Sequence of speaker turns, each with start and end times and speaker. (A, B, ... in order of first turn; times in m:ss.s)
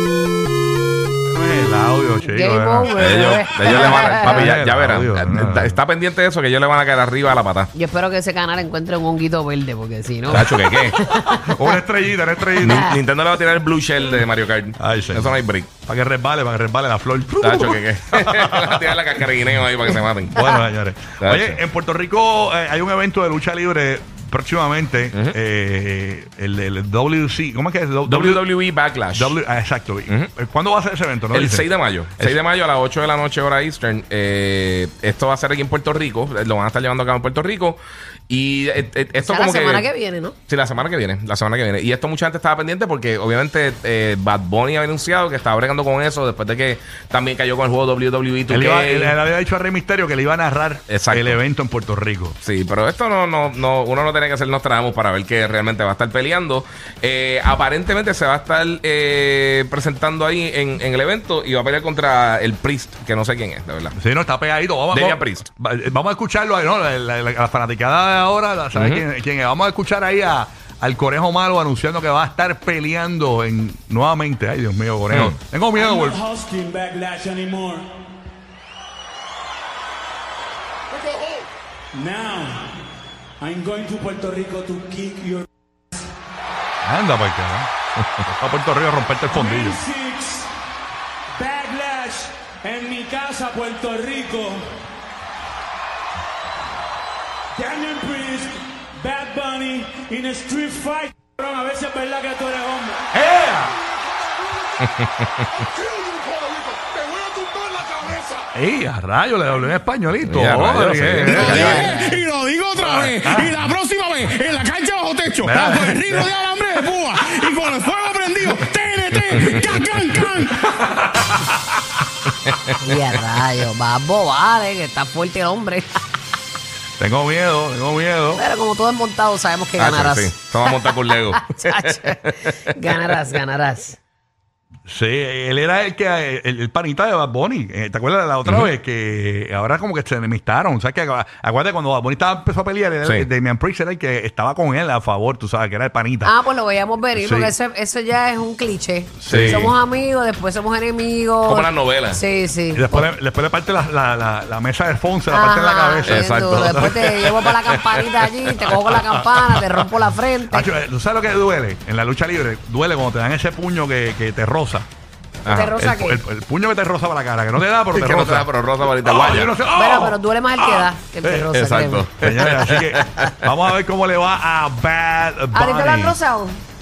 0:01.3-0:05.8 A
0:02.2-0:04.5 B
0:02.9-0:07.7 C
0:07.7-0:11.8 B
0:10.3-0:11.0 C
0:11.1-0:12.9 A
0:12.6-0:15.7 C
0:14.8-0:19.2 A
0:17.4-0:20.5 C
0:20.3-0:28.5 A
0:21.2-0:21.6 C
0:28.0-0:29.4 C
0:29.1-0:32.4 A
0:31.3-0:39.9 C
0:39.2-0:40.4 B
0:40.5-0:49.2 C
0:48.5-0:52.4 A
0:50.9-0:51.4 C
0:52.4-1:04.0 C
1:04.0-1:16.2 A
1:04.9-1:05.4 C
1:08.7-1:09.0 C
1:15.1-1:15.4 C
1:15.7-1:17.9 D
1:21.9-1:22.8 D
1:23.4-1:25.4 D
1:26.8-1:27.7 A
1:28.3-1:29.8 A
1:29.3-1:30.5 D
1:31.4-1:34.7 D
1:37.6-1:43.1 D
1:43.1-1:43.7 A
1:44.8-1:45.6 C
1:45.8-1:48.4 E
1:48.5-1:52.0 A
1:50.2-1:52.0 C
1:51.3-1:52.1 B
1:51.5-2:00.6 E
1:52.8-1:53.6 A
1:55.4-1:56.3 A
2:00.7-2:01.6 A
2:02.8-2:05.9 B
2:07.0-2:08.4 A
2:08.3-2:14.0 B
2:09.8-2:13.1 C
2:14.9-2:26.3 A
2:18.4-2:18.7 C
2:23.0-2:23.3 C
2:26.2-2:33.1 B
2:27.2-2:27.5 A
2:29.2-2:29.8 A
2:29.3-2:29.7 C
2:31.4-2:32.2 C
2:32.7-2:37.1 A
2:35.3-2:40.7 B
2:36.0-2:37.9 C
2:38.9-2:39.8 A
2:40.5-2:44.9 A
2:45.4-2:45.8 C
2:45.5-2:46.2 B
2:45.7-2:50.2 A
2:47.9-2:49.5 C
2:49.7-2:52.1 B
2:51.2-2:51.5 A
2:51.5-2:53.3 C
2:52.0-2:56.2 A
2:55.5-2:56.6 B